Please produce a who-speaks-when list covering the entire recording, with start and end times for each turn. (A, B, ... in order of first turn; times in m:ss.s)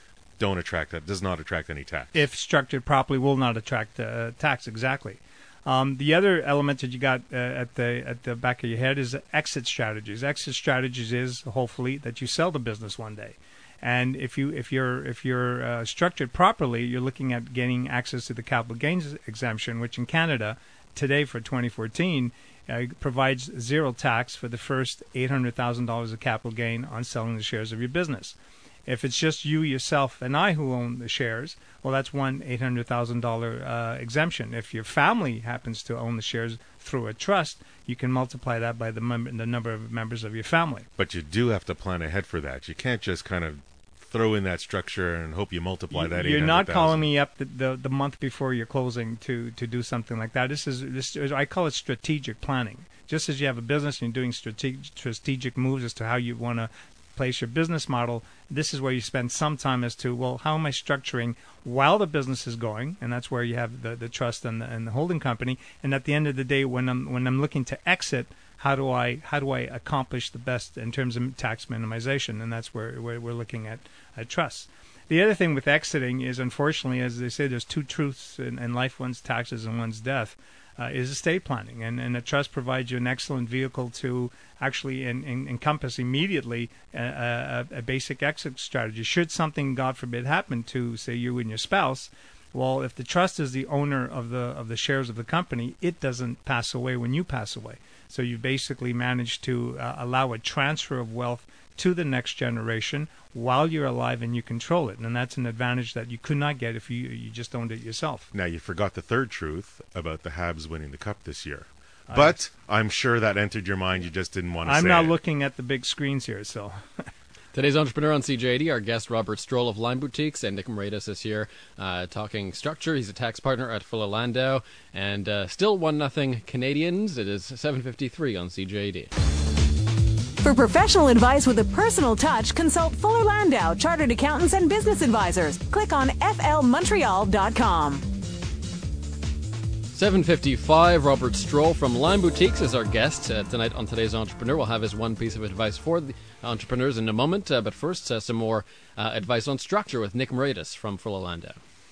0:00.4-0:02.1 A
0:02.1-0:28.3 B
0:28.8-0:40.9 B
0:41.0-0:47.1 A
0:45.9-1:48.3 B
1:48.3-1:55.2 A
1:52.1-1:52.3 B
1:54.6-1:56.8 B
1:57.5-2:09.1 C
2:10.4-2:18.0 D
2:19.9-2:31.6 C